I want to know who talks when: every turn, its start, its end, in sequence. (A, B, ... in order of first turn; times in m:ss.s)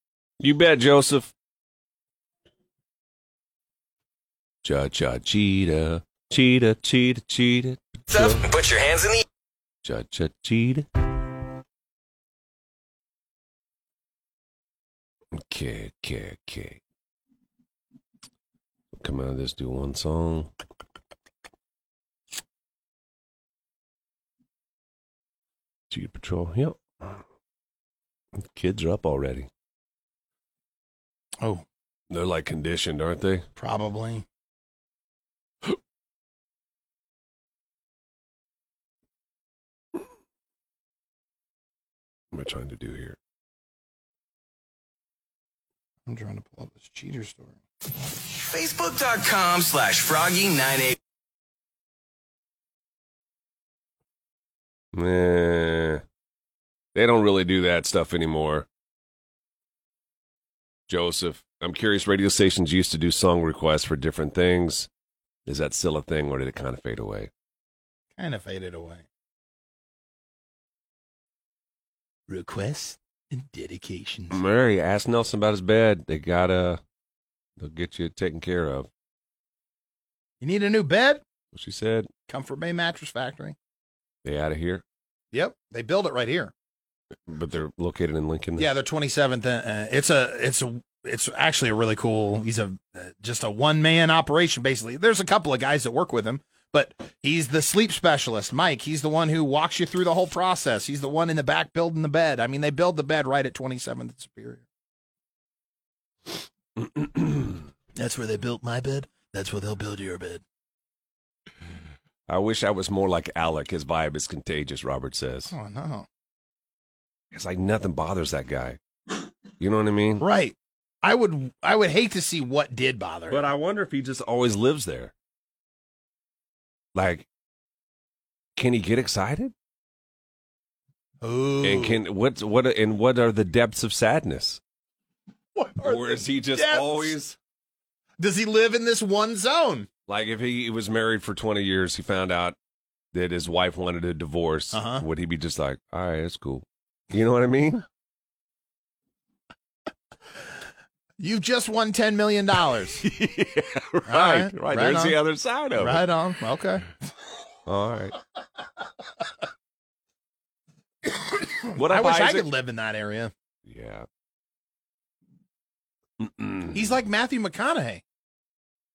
0:00.4-0:01.3 A
0:04.6-0:08.5 A
0:08.1-0:09.2 B
0:09.8-0:10.9 A
0:15.3-0:16.8 A
0:18.9-0:20.5 A
0:25.9-0:27.2 A
0:28.4-0:29.5 A
0:32.1-0:33.5 A
0:33.6-0:34.2 C
0:42.3-0:43.2 A
0:46.1-0:47.6 C
0:48.3-0:51.0 B
0:54.9-0:56.0 A
0:56.9-0:58.7 A
1:00.9-1:04.9 A
1:05.4-1:07.3 A
1:08.2-1:09.1 C
1:12.3-1:14.4 C
1:14.3-1:16.8 A
1:17.6-1:18.9 A
1:20.4-1:21.2 C
1:21.5-1:22.1 A
1:22.3-1:23.6 C
1:24.2-1:24.8 A
1:25.3-1:26.5 C
1:27.3-1:28.7 A
1:28.6-1:44.6 C
1:46.8-1:47.6 A
1:48.0-1:50.4 C
1:52.3-1:55.5 A
1:55.5-1:56.1 C
1:57.3-1:58.8 A
1:59.6-2:00.3 A
2:00.2-2:03.4 C
2:03.3-2:05.1 A
2:06.9-2:07.3 A
2:08.6-2:09.5 A
2:11.2-2:12.0 C
2:11.6-2:14.6 A
2:15.6-2:17.2 C
2:15.8-2:17.4 A
2:18.2-2:19.9 C
2:20.1-2:22.6 A
2:23.1-2:27.8 A
2:24.7-2:25.0 C
2:31.2-2:33.0 C
2:33.0-2:36.1 A
2:34.1-2:35.2 C
2:35.7-2:36.9 C
2:37.7-2:38.2 A
2:41.4-2:43.3 C
2:41.7-2:42.5 A
2:43.7-2:44.1 A
2:46.2-2:46.9 A
2:46.7-2:48.0 C